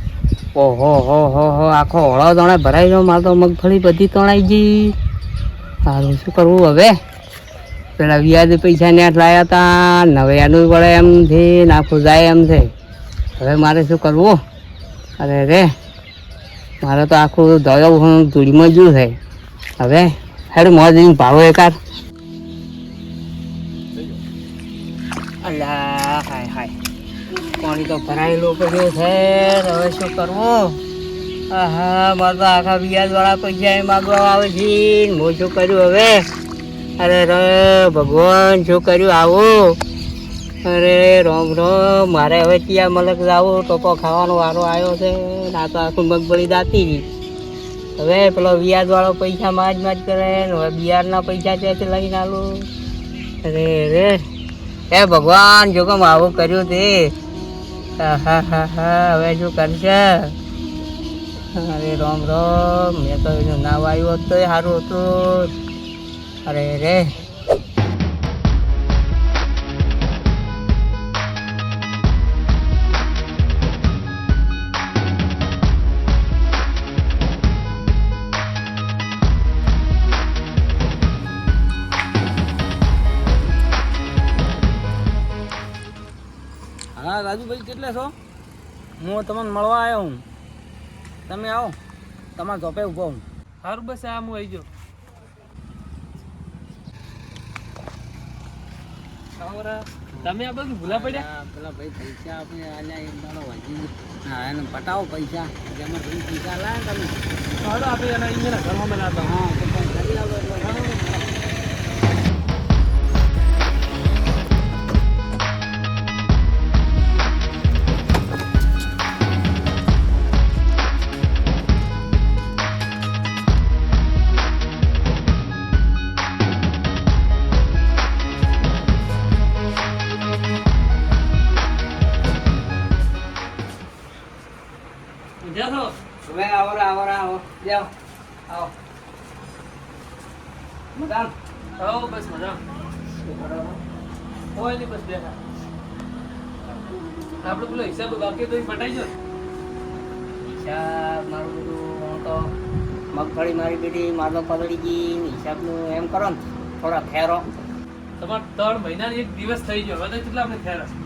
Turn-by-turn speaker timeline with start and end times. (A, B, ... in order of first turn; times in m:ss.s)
0:00.5-0:04.9 A
0:05.8-0:06.9 A
0:08.0-0:12.7 A
0:13.4-0:14.4 A
0:15.2-0:15.7 A
0:16.8-0:19.1 A
0:19.8-0:21.7 A
0:25.4-0:26.7 A
0:27.6-0:30.8 A
0:31.5-0:36.2 A
0:37.0-0:39.8 A
0:40.6-0:47.0 A
0:48.0-0:52.7 A
0:53.4-0:54.2 A
0:54.9-0:57.1 A
0:58.0-1:00.4 A
1:01.5-1:05.5 A
1:06.4-1:07.1 A
1:27.0-1:28.1 B
1:29.0-1:30.2 B
1:31.3-1:31.8 B
1:32.4-1:33.2 B
1:33.6-1:34.7 C
1:39.4-1:41.1 C
1:40.8-1:47.2 B
1:47.6-1:49.3 C
1:49.2-1:51.2 B
2:15.4-2:15.9 C
2:16.2-2:17.9 A
2:18.5-2:18.7 A
2:20.9-2:21.3 A
2:21.8-2:22.6 C
2:23.2-2:23.8 A
2:24.5-2:25.4 C
2:27.4-2:29.1 C
2:30.4-2:32.5 A
2:33.1-2:37.4 A
2:38.2-2:40.9 C